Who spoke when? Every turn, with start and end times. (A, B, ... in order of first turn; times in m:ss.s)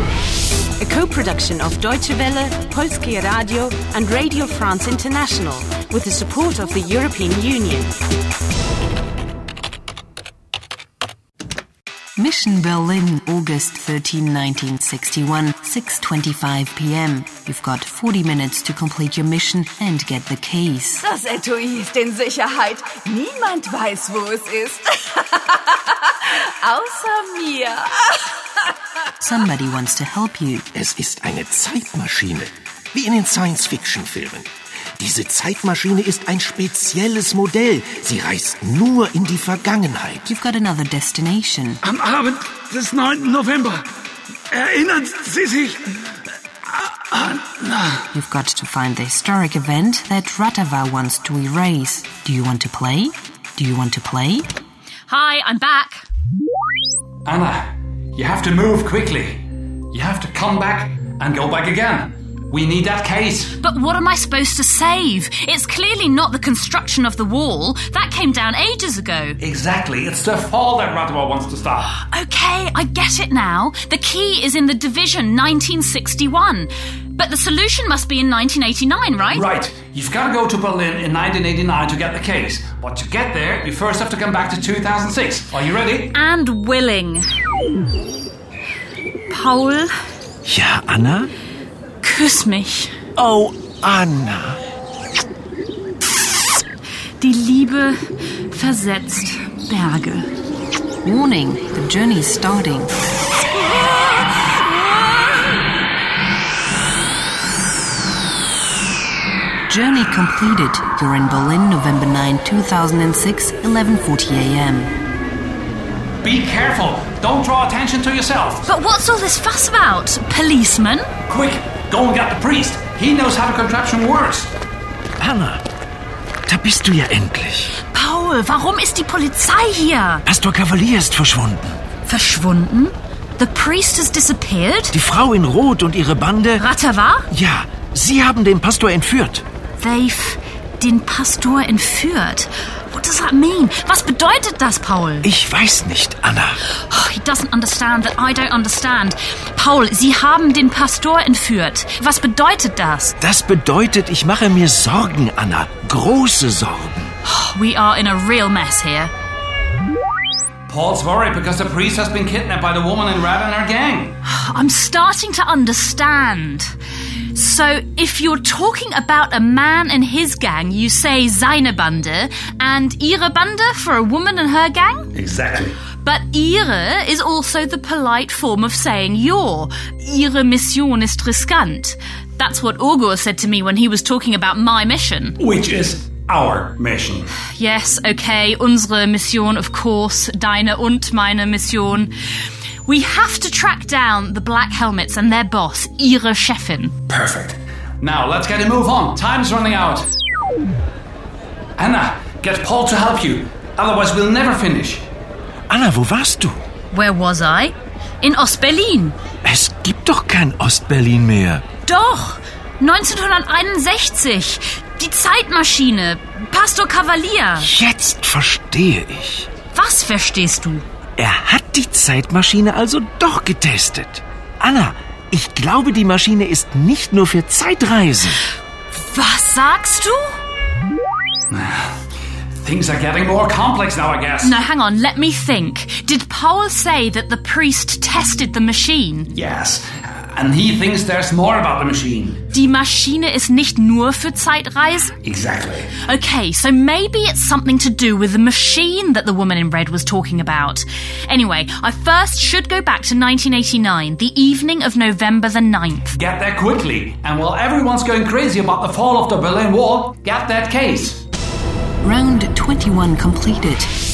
0:00.8-0:07.9 A
0:12.2-0:21.0 B
0:21.0-0:25.7 C
0:26.2-0:28.1 C
0:29.2-0:30.7 B
0:30.7-0:40.2 D
0:40.2-0:41.8 B
0:41.8-0:43.8 E
0:44.5-0:46.0 E
0:46.7-0:48.0 E
0:48.1-0:54.5 B
0:55.1-0:56.0 F
0:57.2-1:03.5 E
1:03.6-1:09.4 F
1:09.4-1:11.9 E
1:12.0-1:19.4 F
1:19.3-1:26.1 E
1:26.1-1:27.2 F
1:29.3-1:29.9 F
1:30.5-1:31.3 D
1:32.0-1:32.9 F
1:33.2-1:34.6 D
1:37.2-1:40.3 F
1:41.0-1:42.9 B
1:49.7-1:54.9 B
1:56.2-1:58.7 E
1:58.6-2:01.1 F
2:01.3-2:04.5 E
2:05.2-2:05.6 D
2:06.5-2:07.7 D
2:07.9-2:10.2 F
2:10.3-2:11.7 D
2:12.0-2:14.9 F
2:14.9-2:16.6 D
2:16.6-2:17.2 F
2:17.4-2:19.4 D
2:19.8-2:25.3 F
2:25.2-2:26.6 D
2:26.9-2:33.1 F
2:33.2-2:37.1 D
2:37.2-2:39.1 F
2:40.7-2:44.2 E
2:44.2-2:46.7 F
2:47.3-2:55.1 F
2:55.1-2:55.8 E
2:56.0-3:05.4 F
3:05.4-3:07.3 E
3:07.6-3:12.1 F
3:12.8-3:16.9 F
3:17.1-3:20.1 E
3:21.8-3:25.0 E
3:25.7-3:26.6 D
3:26.9-3:29.2 F
3:29.5-3:31.6 D
3:31.8-3:37.7 F
3:37.6-3:39.5 D
3:39.7-3:40.8 F
3:41.2-3:48.4 D
3:49.0-3:50.4 F
3:51.5-3:52.0 E
3:52.6-3:54.6 E
3:54.4-3:59.3 F
3:59.3-4:02.5 E
4:02.5-4:05.1 F
4:05.2-4:05.9 E
4:06.0-4:16.1 F
4:16.1-4:21.2 E
4:22.0-4:23.9 B